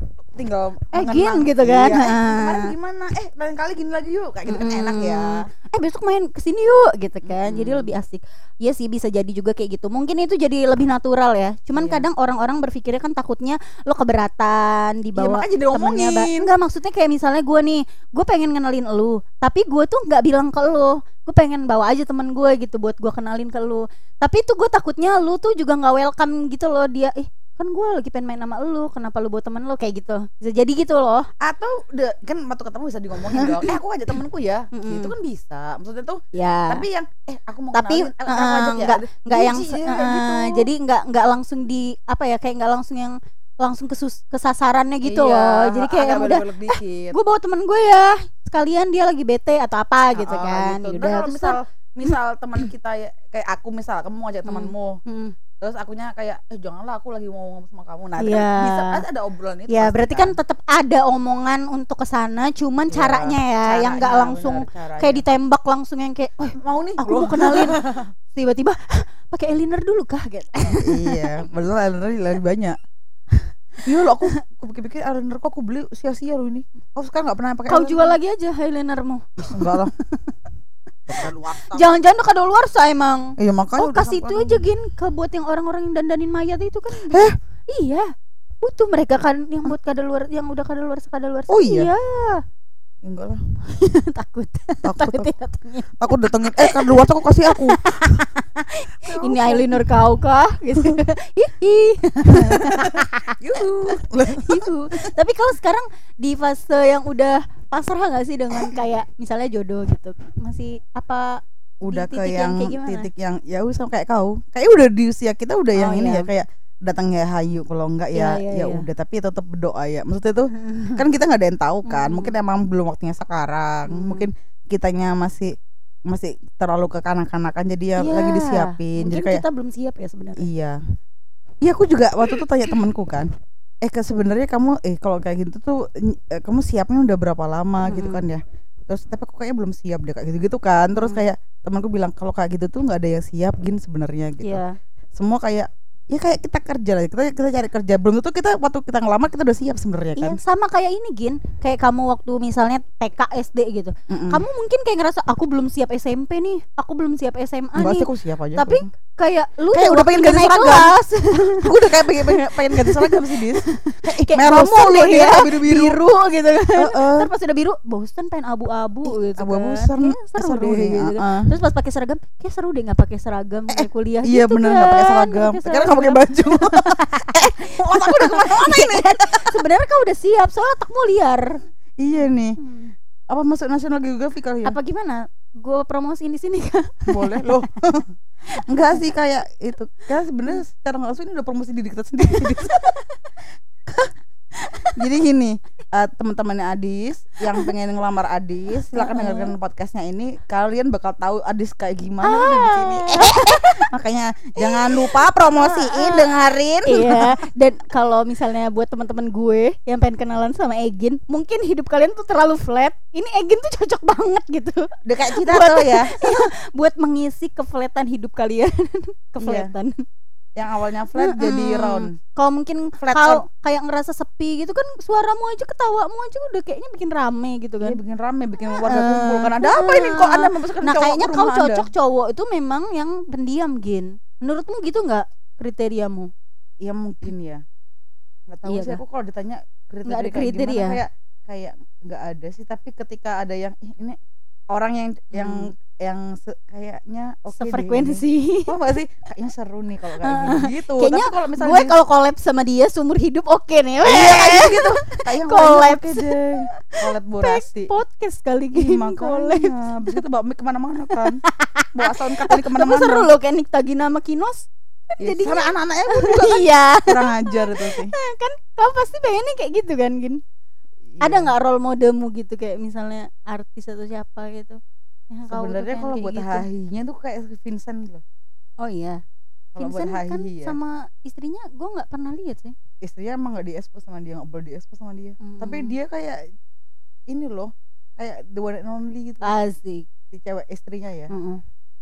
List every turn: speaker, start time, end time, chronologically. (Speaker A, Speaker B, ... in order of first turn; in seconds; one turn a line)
Speaker A: 0.3-5.5
Speaker B: 0.9-2.7
Speaker B: 4.5-31.3
Speaker A: 7.2-7.9
Speaker A: 11.7-12.0
Speaker A: 15.1-16.5
Speaker A: 31.4-40.7
Speaker B: 33.2-33.8
Speaker B: 34.7-35.1
Speaker B: 36.3-36.8
Speaker B: 37.7-51.5
Speaker A: 45.0-47.2
Speaker A: 50.1-55.0
Speaker B: 54.4-55.3
Speaker A: 55.6-60.4
Speaker B: 58.2-59.0
Speaker B: 59.7-67.8
Speaker A: 62.9-65.2
Speaker A: 66.6-68.1
Speaker B: 68.3-71.3
Speaker A: 70.7-72.8
Speaker A: 73.8-78.1
Speaker B: 77.7-79.8
Speaker A: 79.5-79.9
Speaker A: 81.1-81.9
Speaker B: 81.7-88.1
Speaker A: 83.4-84.6
Speaker A: 87.1-87.3
Speaker B: 88.6-92.4
Speaker A: 91.5-91.9
Speaker A: 93.0-93.4
Speaker B: 93.7-103.3
Speaker A: 94.8-95.3
Speaker A: 96.0-98.2
Speaker A: 99.0-99.8
Speaker A: 102.2-104.7
Speaker B: 104.3-113.1
Speaker A: 111.8-125.5
Speaker B: 115.7-116.3
Speaker B: 118.1-118.9
Speaker B: 120.5-121.0
Speaker B: 121.8-122.3
Speaker B: 123.9-124.3
Speaker A: 126.1-129.4
Speaker B: 128.0-130.5
Speaker A: 130.4-130.8
Speaker A: 131.6-133.3
Speaker A: 133.8-144.6
Speaker B: 137.8-138.2
Speaker B: 140.9-141.2
Speaker B: 144.4-144.8
Speaker A: 145.1-150.4
Speaker B: 150.2-181.6
Speaker A: 154.1-154.4
Speaker A: 157.8-158.8
Speaker A: 159.7-160.9
Speaker A: 161.5-166.0
Speaker A: 166.8-167.3
Speaker A: 169.1-171.5
Speaker A: 173.7-179.6
Speaker A: 182.0-182.6
Speaker B: 182.6-182.9
Speaker A: 183.3-184.7
Speaker B: 184.7-187.6
Speaker A: 187.1-188.1
Speaker A: 188.7-193.0
Speaker B: 194.6-195.0
Speaker A: 194.9-207.3
Speaker B: 198.9-199.5
Speaker B: 202.2-203.8
Speaker B: 204.6-206.3
Speaker B: 206.8-220.0
Speaker A: 215.0-216.5
Speaker A: 219.4-219.7
Speaker A: 220.6-222.1
Speaker B: 221.1-228.0
Speaker A: 223.0-223.4
Speaker A: 227.8-231.9
Speaker B: 228.8-236.3
Speaker A: 236.8-237.6
Speaker A: 238.5-244.2
Speaker B: 238.7-239.0
Speaker B: 240.1-241.0
Speaker A: 244.7-251.9
Speaker B: 245.3-245.7
Speaker B: 247.5-248.7
Speaker B: 250.2-256.4
Speaker A: 254.0-257.9
Speaker B: 257.4-259.7
Speaker A: 258.7-261.4
Speaker B: 261.1-270.4
Speaker A: 261.9-263.3
Speaker A: 265.2-268.1
Speaker A: 271.1-271.5
Speaker B: 271.2-274.8
Speaker B: 275.3-276.7
Speaker A: 275.5-278.2
Speaker B: 278.8-279.2
Speaker A: 279.7-280.8
Speaker B: 279.8-282.7
Speaker A: 283.0-286.4
Speaker B: 285.4-285.9
Speaker A: 287.3-289.5
Speaker B: 289.4-290.1
Speaker A: 290.3-291.3
Speaker B: 291.3-291.6